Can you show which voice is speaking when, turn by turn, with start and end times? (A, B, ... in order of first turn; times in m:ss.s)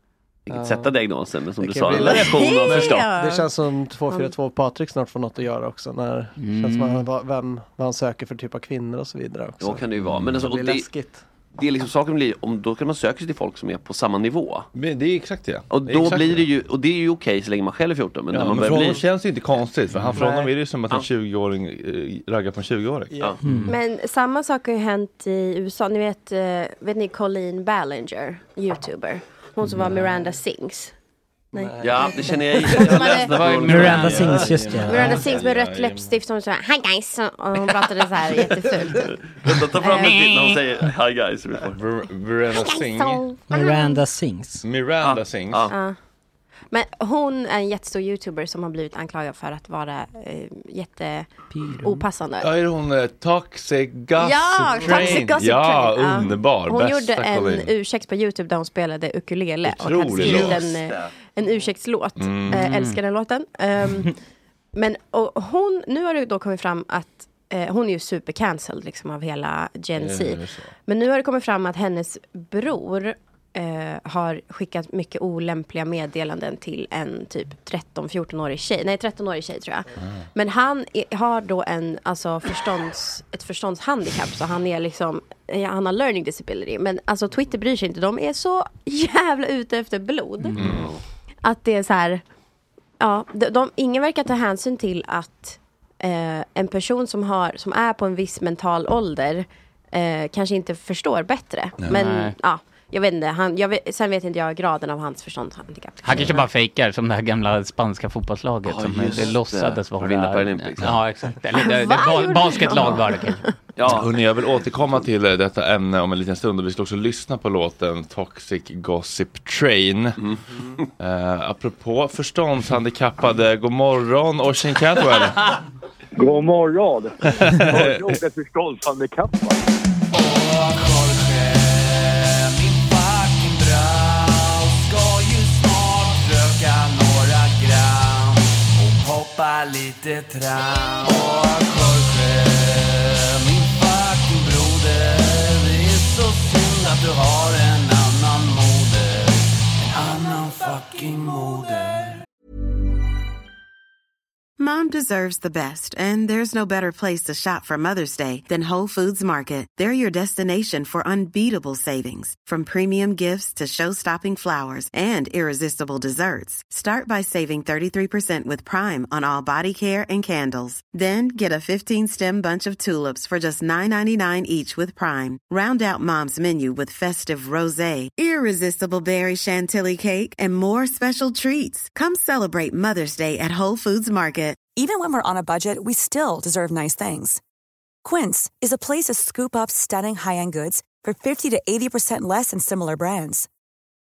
0:00.4-0:03.1 A
0:00.5-0:01.0 B
0:01.6-0:11.2 B
0:02.0-0:03.5 C
0:04.1-0:04.3 C
0:06.4-0:07.1 D
0:09.6-0:10.9 A
0:10.0-0:10.4 E
0:11.5-0:14.7 A
0:14.7-0:16.5 E
0:15.7-0:19.0 A
0:18.3-0:23.2 E
0:20.0-0:20.3 A
0:20.1-0:20.5 B
0:23.1-0:23.6 B
0:23.4-0:23.7 F
0:23.6-0:30.9 C
0:31.5-0:33.3 C
0:31.6-0:32.0 B
0:31.8-0:34.4 A
0:32.8-0:34.4 D
0:33.7-0:35.2 F
0:34.0-0:36.1 E
0:34.8-0:39.1 C
0:39.2-0:41.8 A
0:39.8-0:40.2 C
0:39.9-0:40.6 D
0:41.7-0:43.2 E
0:42.5-0:44.0 C
0:43.5-0:44.6 F
0:44.6-0:45.7 E
0:45.0-0:45.8 A
0:45.7-0:46.0 C
0:46.7-0:51.3 C
0:51.5-0:52.0 D
0:51.8-0:52.5 C
0:52.4-0:57.7 E
0:54.2-1:04.1 C
0:54.8-0:55.1 A
0:59.6-1:00.6 E
1:00.1-1:01.1 A
1:02.2-1:02.6 E
1:02.5-1:03.0 D
1:04.7-1:30.6 C
1:09.9-1:10.7 E
1:30.5-1:31.0 A
1:30.6-1:30.9 E
1:31.4-1:32.2 C
1:33.0-1:46.4 C
1:41.9-1:42.3 D
1:46.0-1:53.4 D
1:48.6-1:51.0 A
1:51.5-1:53.5 C
1:53.8-1:54.1 A
1:53.8-2:00.2 E
2:00.2-2:00.9 A
2:01.0-2:05.5 E
2:06.2-2:09.6 G
2:07.2-2:08.2 E
2:10.1-2:32.2 H
2:34.6-3:04.6 I
3:04.8-3:07.4 J
3:08.0-3:13.5 J